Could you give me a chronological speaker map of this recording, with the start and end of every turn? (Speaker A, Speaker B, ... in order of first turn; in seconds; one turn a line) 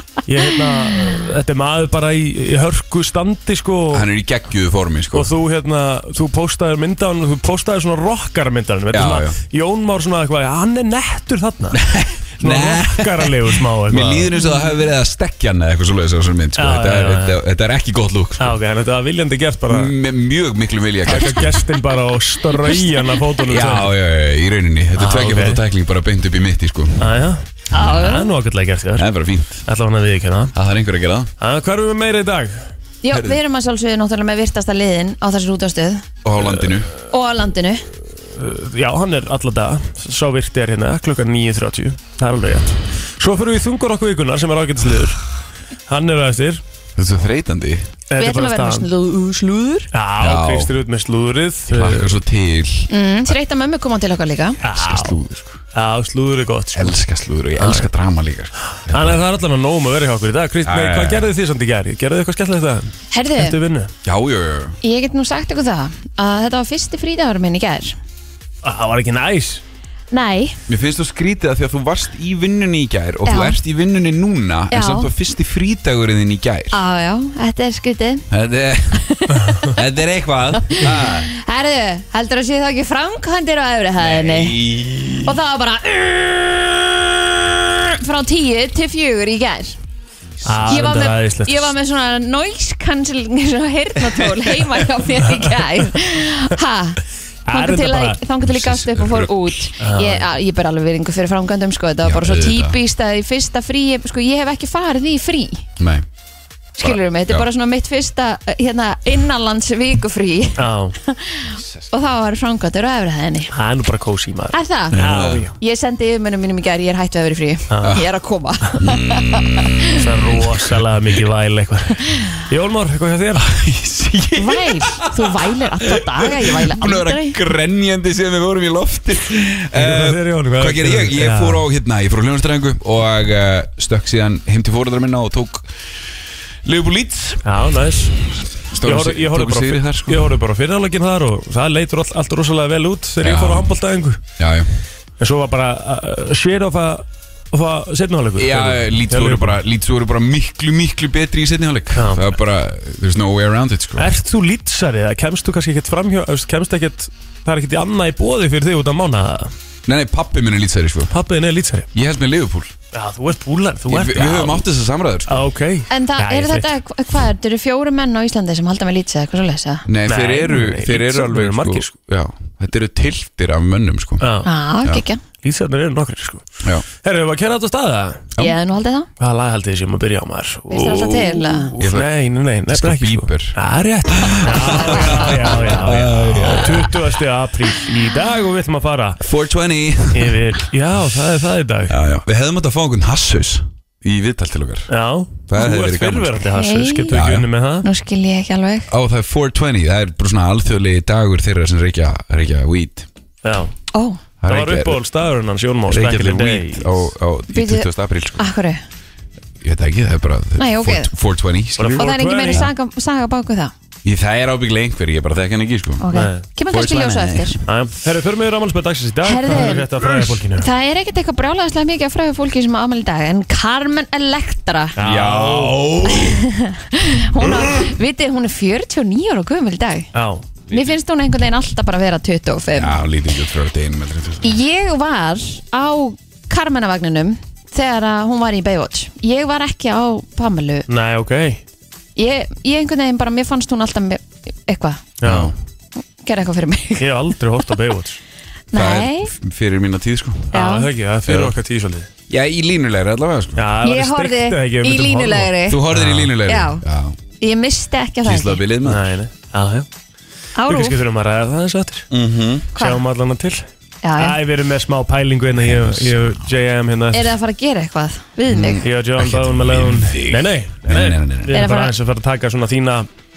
Speaker A: 0.3-4.1
Speaker B: 3.9-5.3
Speaker A: 5.1-11.8
Speaker B: 8.9-9.4
Speaker B: 11.7-18.6
Speaker A: 12.4-14.3
Speaker A: 16.6-17.4
Speaker A: 18.4-19.9
Speaker B: 19.7-21.6
Speaker A: 21.1-23.9
Speaker B: 23.5-27.2
Speaker A: 25.0-25.6
Speaker A: 27.0-29.1
Speaker C: 27.7-28.3
Speaker B: 29.0-29.6
Speaker A: 29.7-30.5
Speaker B: 30.6-31.3
Speaker A: 31.4-32.6
Speaker C: 33.0-36.1
Speaker B: 33.1-33.4
Speaker B: 36.2-36.9
Speaker C: 37.1-37.8
Speaker A: 38.3-45.2
Speaker A: 45.9-46.6
Speaker B: 47.0-47.9
Speaker A: 48.1-48.9
Speaker C: 48.2-49.9
Speaker A: 49.9-52.2
Speaker B: 50.2-50.8
Speaker B: 51.7-52.9
Speaker C: 52.9-54.6
Speaker A: 54.6-55.2
Speaker B: 54.6-55.6
Speaker A: 55.7-57.0
Speaker B: 56.7-59.2
Speaker A: 57.6-57.9
Speaker A: 58.9-63.9
Speaker B: 60.6-61.3
Speaker C: 63.1-63.6
Speaker B: 64.0-64.8
Speaker C: 64.8-68.0
Speaker A: 68.6-69.6
Speaker C: 70.1-70.6
Speaker B: 70.7-76.8
Speaker C: 73.3-73.6
Speaker C: 74.7-75.1
Speaker C: 76.7-78.3
Speaker B: 78.3-79.0
Speaker C: 79.0-79.8
Speaker B: 79.7-81.3
Speaker C: 80.6-84.6
Speaker B: 84.0-85.3
Speaker C: 85.2-89.8
Speaker B: 90.3-90.8
Speaker A: 90.5-91.7
Speaker C: 90.7-105.7
Speaker A: 95.3-95.7
Speaker A: 97.5-98.2
Speaker B: 98.5-99.7
Speaker A: 99.8-100.2
Speaker B: 102.0-102.8
Speaker B: 105.8-106.1
Speaker C: 106.8-113.5
Speaker B: 106.8-107.5
Speaker A: 110.6-111.0
Speaker A: 113.5-115.5
Speaker C: 114.5-120.0
Speaker B: 114.9-115.5
Speaker A: 117.7-118.0
Speaker B: 118.8-120.8
Speaker A: 120.0-123.5
Speaker B: 123.4-135.7
Speaker C: 124.4-127.4
Speaker A: 129.7-131.7
Speaker B: 136.6-140.4
Speaker A: 137.4-138.2
Speaker A: 138.8-144.2
Speaker B: 143.2-143.8
Speaker B: 144.4-144.7
Speaker A: 145.2-149.6
Speaker B: 148.4-154.1
Speaker A: 151.9-152.2
Speaker A: 154.0-159.5
Speaker B: 159.9-161.2
Speaker A: 161.1-161.9
Speaker B: 161.9-162.8
Speaker A: 162.9-164.7
Speaker B: 163.9-165.5
Speaker A: 165.3-166.8
Speaker C: 165.9-169.9
Speaker B: 169.9-174.3
Speaker A: 170.1-171.9
Speaker A: 174.2-174.5
Speaker C: 174.4-175.2
Speaker A: 175.4-176.5
Speaker A: 177.0-178.3
Speaker C: 178.4-179.1
Speaker A: 179.2-189.2
Speaker C: 180.7-181.7
Speaker B: 181.8-182.1
Speaker B: 182.7-183.6
Speaker B: 184.1-187.2
Speaker C: 184.7-185.3
Speaker B: 189.2-190.6
Speaker A: 190.1-192.0
Speaker B: 191.9-194.9
Speaker A: 194.9-197.9
Speaker B: 195.5-196.4
Speaker C: 196.5-197.2
Speaker B: 197.1-197.5
Speaker C: 197.8-198.9
Speaker B: 198.9-203.1
Speaker A: 203.4-203.7
Speaker C: 203.9-204.2
Speaker B: 204.4-205.0
Speaker A: 204.5-207.1
Speaker B: 205.9-208.5
Speaker C: 207.5-207.9
Speaker C: 208.4-208.8
Speaker B: 209.6-212.7
Speaker C: 210.6-211.1
Speaker A: 211.8-212.7
Speaker C: 212.0-213.7
Speaker B: 214.0-216.1
Speaker C: 216.0-217.6
Speaker A: 216.1-216.4
Speaker B: 216.7-217.6
Speaker A: 217.7-220.7
Speaker C: 219.2-219.9
Speaker B: 220.0-220.4
Speaker C: 220.5-224.9
Speaker A: 225.0-225.8
Speaker B: 225.0-226.4
Speaker C: 226.1-230.1
Speaker A: 230.1-230.5
Speaker C: 230.7-233.0
Speaker B: 232.7-234.6
Speaker C: 234.4-240.9
Speaker A: 240.9-241.6
Speaker C: 242.2-245.1
Speaker A: 245.2-245.5
Speaker B: 245.2-245.5
Speaker C: 246.2-247.1
Speaker A: 247.0-248.2
Speaker C: 248.7-249.3
Speaker B: 248.7-250.6
Speaker A: 250.5-252.1
Speaker C: 250.5-250.9
Speaker B: 251.3-251.6
Speaker B: 252.3-253.7
Speaker A: 253.6-256.3
Speaker C: 253.8-255.8
Speaker B: 255.7-257.2
Speaker C: 256.5-256.8
Speaker C: 257.4-258.6
Speaker B: 258.2-259.1
Speaker A: 258.9-259.9
Speaker C: 260.6-261.0
Speaker A: 260.7-262.1
Speaker B: 262.1-262.7
Speaker C: 262.8-263.0
Speaker A: 262.8-263.6
Speaker C: 264.0-264.4
Speaker A: 264.2-267.4
Speaker B: 265.6-266.4
Speaker C: 267.1-268.8
Speaker B: 268.5-271.6
Speaker A: 268.8-273.1
Speaker C: 271.5-271.9